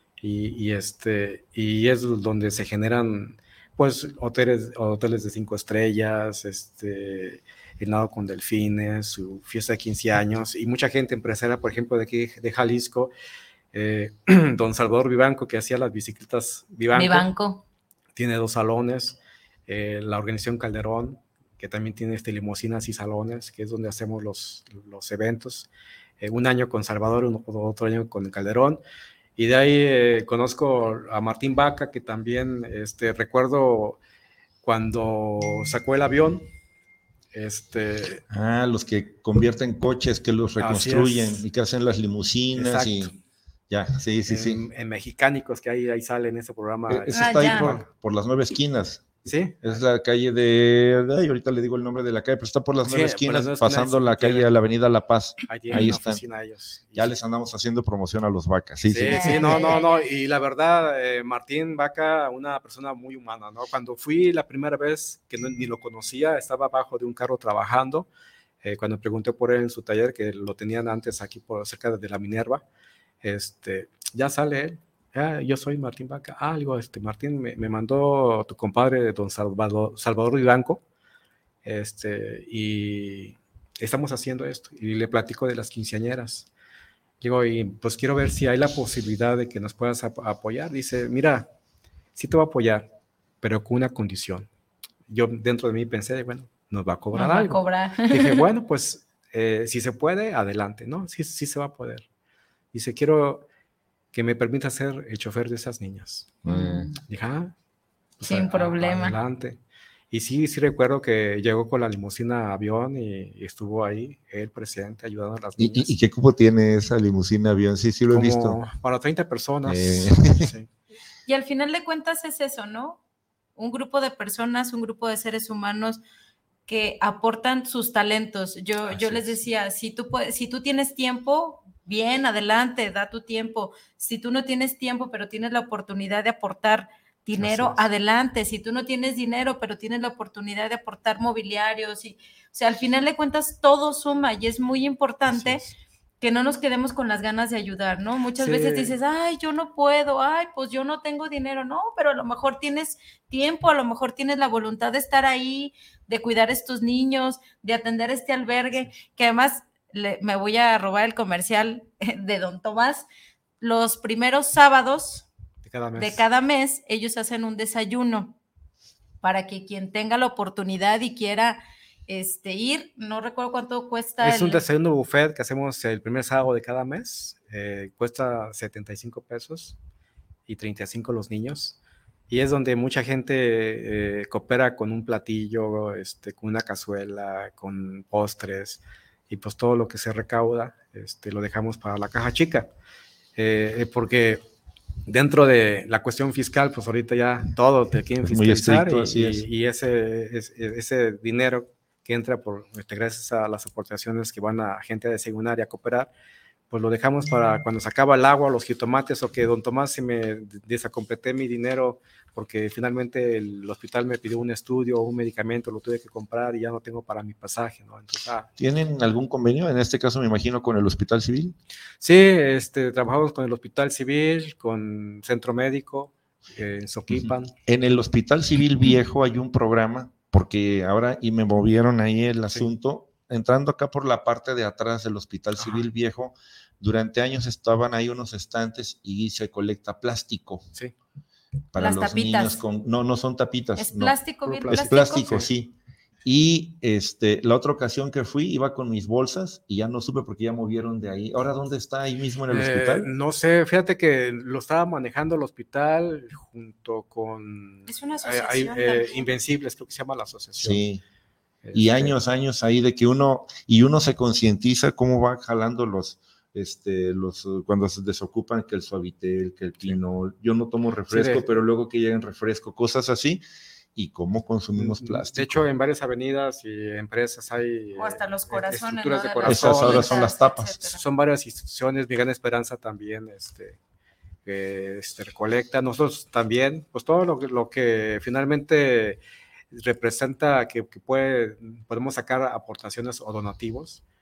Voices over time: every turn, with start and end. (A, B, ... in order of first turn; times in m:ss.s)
0:00.2-0:13.1 A
0:13.7-0:17.3 A
0:16.9-0:17.6 B
0:18.2-0:25.7 A
0:26.2-0:28.8 A
0:29.4-0:34.0 A
0:34.6-0:36.5 A
0:37.3-0:38.2 A
0:38.3-0:43.1 C
0:40.6-0:41.4 A
0:42.5-0:43.2 A
0:43.7-0:44.6 C
0:44.3-0:47.9 A
0:46.9-0:49.1 C
0:47.2-0:47.8 B
0:49.2-0:49.8 A
0:49.6-0:56.2 C
0:52.8-0:54.5 A
0:55.5-0:57.2 A
0:57.0-0:59.8 C
0:58.9-1:08.1 A
0:59.1-1:00.0 B
1:08.6-1:12.6 A
1:13.2-1:20.8 A
1:21.6-1:26.5 A
1:27.2-1:31.5 A
1:32.2-1:32.9 A
1:33.4-1:34.5 A
1:35.1-1:42.0 A
1:37.1-1:38.4 B
1:42.7-1:43.5 A
1:44.1-1:46.4 A
1:46.4-1:46.9 C
1:46.5-1:47.0 B
1:47.0-1:47.6 A
1:48.2-1:49.6 A
1:48.3-1:49.2 B
1:50.1-1:55.9 A
1:55.6-1:58.6 C
1:58.1-2:00.7 A
1:59.7-2:00.5 C
2:01.3-2:03.0 B
2:03.6-2:06.0 B
2:06.7-2:25.6 B
2:08.9-2:09.2 C
2:17.4-2:17.8 A
2:25.3-2:25.8 A
2:26.2-2:43.1 B
2:28.4-2:28.9 A
2:43.6-2:45.3 B
2:45.6-2:46.2 A
2:46.0-2:48.4 B
2:49.2-2:54.6 B
2:54.2-2:59.8 A
3:00.5-3:01.8 A
3:02.3-3:12.7 A
3:13.4-3:14.4 A
3:15.1-3:26.1 A
3:18.2-3:19.5 C
3:26.7-3:38.5 A
3:38.6-3:41.6 C
3:42.0-3:47.6 A
3:47.1-4:00.7 C
3:55.6-3:55.9 A
4:01.7-4:13.1 C
4:01.8-4:02.6 B
4:03.8-4:05.4 B
4:04.7-4:05.5 A
4:12.5-4:20.8 A
4:17.9-4:19.3 B
4:20.6-4:21.0 C
4:21.6-4:22.2 A
4:21.7-4:33.4 C
4:31.1-4:31.4 A
4:34.0-4:35.7 C
4:34.8-4:40.2 A
4:38.0-4:41.0 B
4:39.4-4:40.8 C
4:40.9-4:43.8 A
4:44.5-4:49.2 A
4:49.7-4:54.0 A